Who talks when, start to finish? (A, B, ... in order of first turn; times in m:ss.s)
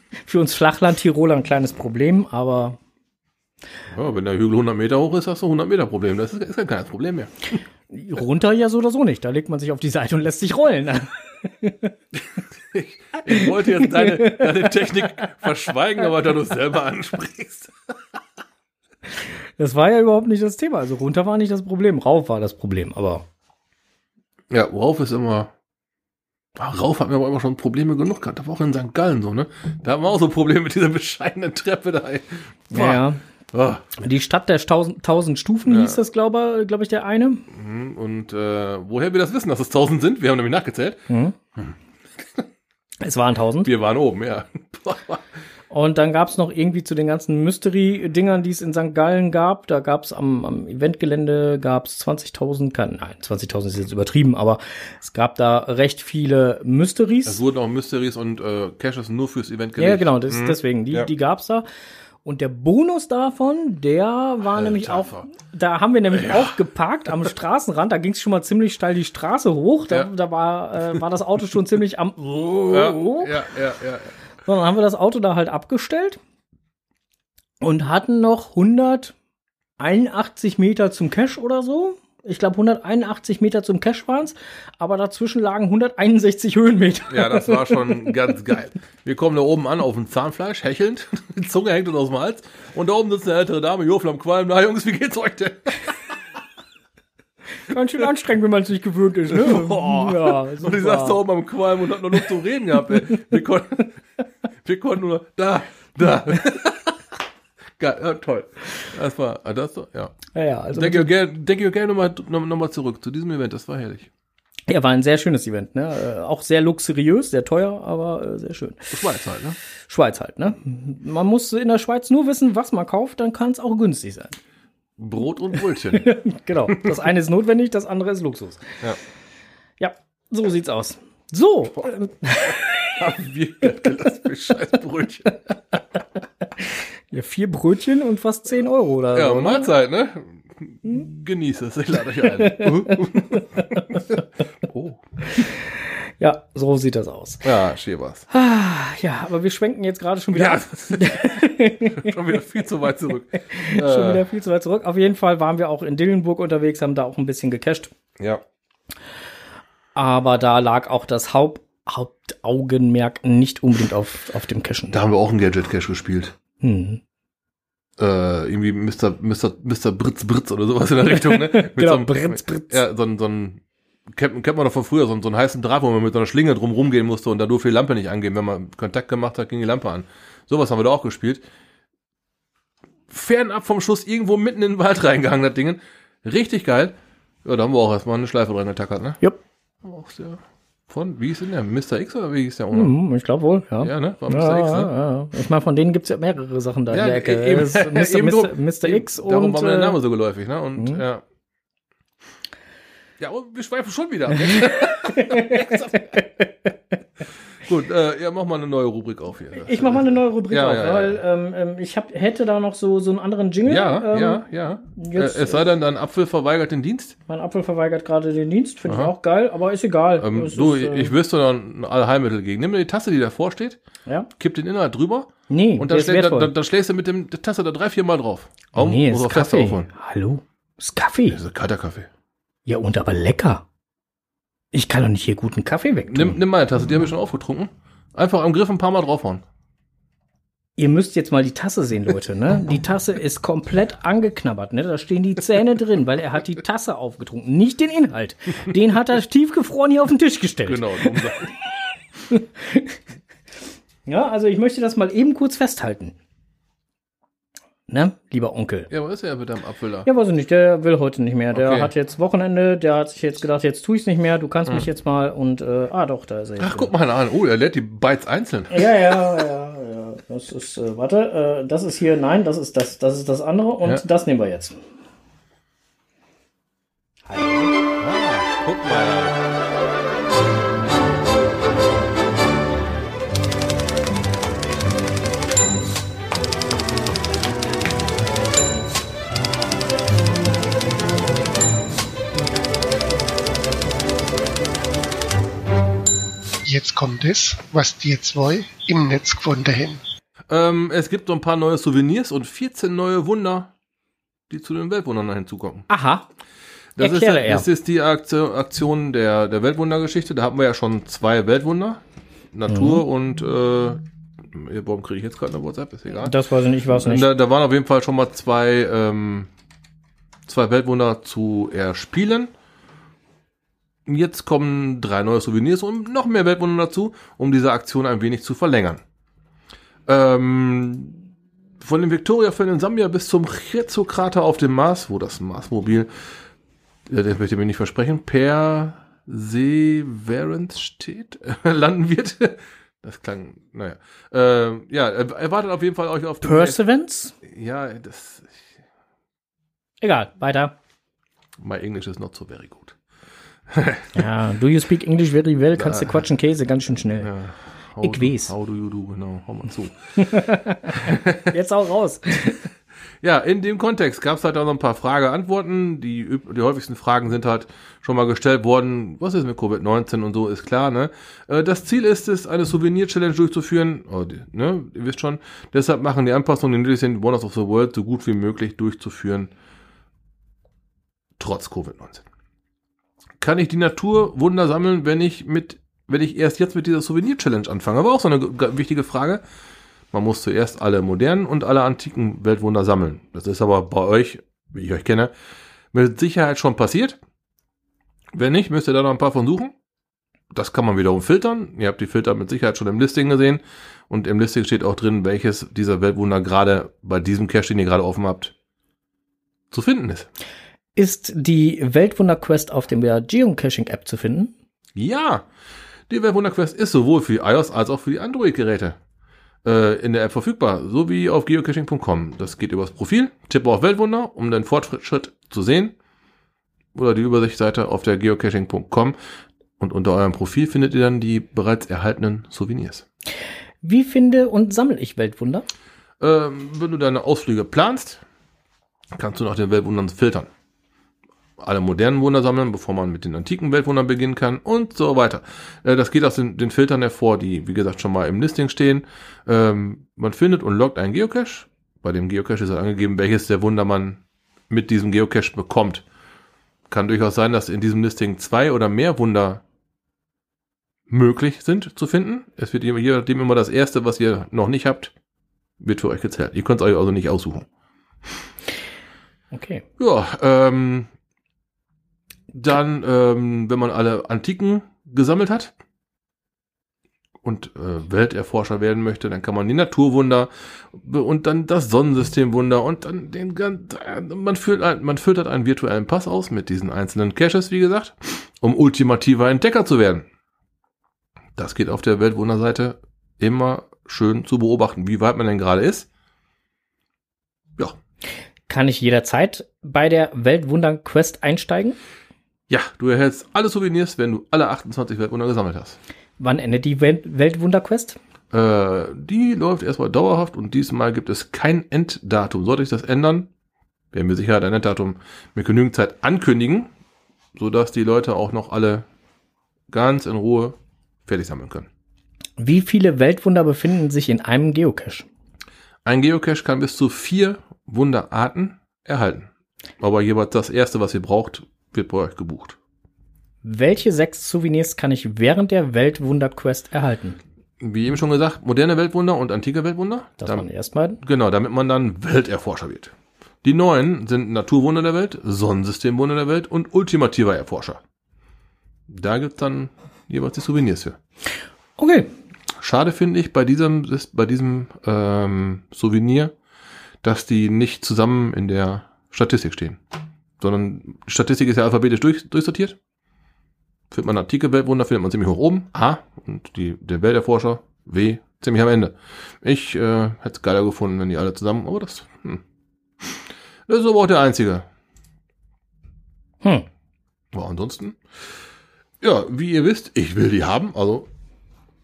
0:00.3-0:02.8 A
0:03.9-0:07.3 B
0:07.9-0:11.9 A
0:12.4-0:17.9 B
0:13.4-0:14.9 A
0:19.6-0:23.2 A
0:24.5-0:25.5 B
0:26.6-0:34.0 B
0:32.7-0:33.2 A
0:34.0-0:37.4 A
0:35.7-0:36.0 B
0:37.5-0:41.0 B
0:41.1-0:41.4 A
0:41.6-0:42.4 B
0:43.0-0:43.7 A
0:43.6-0:45.3 B
0:45.7-0:57.4 A
0:57.3-1:01.1 B
0:59.8-1:01.6 A
1:02.2-1:13.3 A
1:04.6-1:05.3 B
1:06.1-1:06.6 B
1:12.7-1:14.1 B
1:14.4-1:16.2 A
1:17.6-1:19.2 A
1:19.8-1:28.2 A
1:27.1-1:36.2 B
1:37.7-1:41.2 A
1:39.3-1:44.0 B
1:44.6-1:47.0 B
1:47.8-1:50.2 B
1:50.3-1:51.1 A
1:50.7-1:54.1 B
1:54.7-1:59.0 A
1:58.9-1:59.6 B
1:59.9-2:04.4 A
2:05.0-2:06.1 B
2:06.0-2:08.7 A
2:09.8-2:13.0 A
2:13.0-2:15.3 B
2:17.1-2:19.7 A
2:19.1-2:25.0 B
2:22.4-2:23.8 A
2:25.4-2:27.4 A
2:27.4-2:28.2 B
2:28.3-2:32.2 A
2:30.3-2:34.2 B
2:33.4-2:37.9 A
2:40.0-2:45.0 A
2:44.9-2:46.4 B
2:46.6-2:47.0 A
2:48.0-3:01.4 B
2:51.1-2:52.8 A
3:03.1-3:09.2 B
3:09.8-3:12.9 B
3:12.7-3:20.0 A
3:13.8-3:14.9 B
3:16.9-3:21.2 B
3:20.8-3:21.0 A
3:23.2-3:26.2 B
3:24.4-3:26.7 A
3:27.6-3:31.2 B
3:29.6-3:35.6 A
3:33.6-3:37.2 B
3:37.3-3:41.1 A
3:38.9-3:39.1 B
3:40.2-3:43.8 B
3:44.4-3:49.9 B
3:45.5-3:46.5 A
3:48.8-3:51.4 A
3:51.3-3:52.1 B
3:52.7-3:53.6 A
3:54.7-3:56.4 A
3:56.1-3:59.4 B
4:00.8-4:11.4 A
4:10.7-4:11.5 B
4:12.3-4:13.0 A
4:14.1-4:16.2 A
4:17.9-4:18.9 A
4:18.9-4:20.1 B
4:20.1-4:26.9 A
4:21.5-4:21.9 B
4:26.6-4:28.8 B
4:28.7-4:34.8 A
4:37.3-4:37.7 A
4:38.0-4:39.4 B
4:56.6-5:00.0 C
5:00.5-5:03.7 B
5:04.5-5:05.9 B
5:05.9-5:06.3 A
5:07.0-5:16.3 B
5:07.0-5:07.6 A
5:12.7-5:13.0 A
5:16.2-5:17.3 A
5:16.9-5:19.5 B
5:20.5-5:22.5 B
5:24.1-5:29.0 B
5:30.1-5:31.3 B
5:31.8-5:36.1 B
5:37.1-5:46.8 B
5:46.4-5:47.4 A
5:47.4-5:48.7 B
5:50.0-5:50.7 A
5:51.6-5:53.0 B
5:53.7-5:54.2 B
5:54.1-5:57.3 A
5:55.8-5:56.2 B
5:57.2-6:00.4 B
5:58.0-5:58.5 A
6:00.2-6:02.6 A
6:01.0-6:01.5 B
6:03.2-6:19.5 B
6:21.4-6:22.2 B
6:23.4-6:29.4 B
6:30.1-6:35.3 B
6:35.9-6:37.2 B
6:38.3-6:39.7 B
6:40.5-6:48.5 B
6:49.7-6:50.3 B
6:51.0-6:54.5 A
6:55.0-6:55.5 B
6:56.1-6:59.0 B
6:59.6-7:06.0 B
7:06.9-7:09.2 B
7:09.8-7:13.1 B
7:13.8-7:15.7 A
7:16.2-7:18.2 B
7:19.2-7:20.5 B
7:21.6-7:36.0 B
7:36.9-7:39.6 B
7:41.1-7:45.1 B
7:45.8-7:47.7 B
7:49.5-7:49.8 A
7:50.0-7:51.1 B
7:52.5-7:55.7 B
7:57.4-8:10.3 B
8:11.6-8:16.1 B
8:18.7-8:22.0 A
8:22.7-8:26.0 B
8:26.4-8:28.2 A
8:28.5-8:33.5 B
8:34.1-8:36.9 B
8:37.6-8:39.1 B
8:39.9-8:41.9 B
8:42.6-8:45.3 A
8:46.0-8:49.5 B
8:50.0-8:52.8 B
8:53.6-8:57.4 A
8:57.8-9:00.6 B
9:00.4-9:01.2 A
9:01.2-9:08.0 B
9:09.1-9:11.2 B
9:12.0-9:12.3 A
9:12.8-9:16.5 B
9:17.2-9:20.0 B
9:20.6-9:23.0 B
9:24.1-9:32.6 B
9:33.2-9:34.9 B
9:37.5-9:38.2 B
9:39.2-9:41.3 B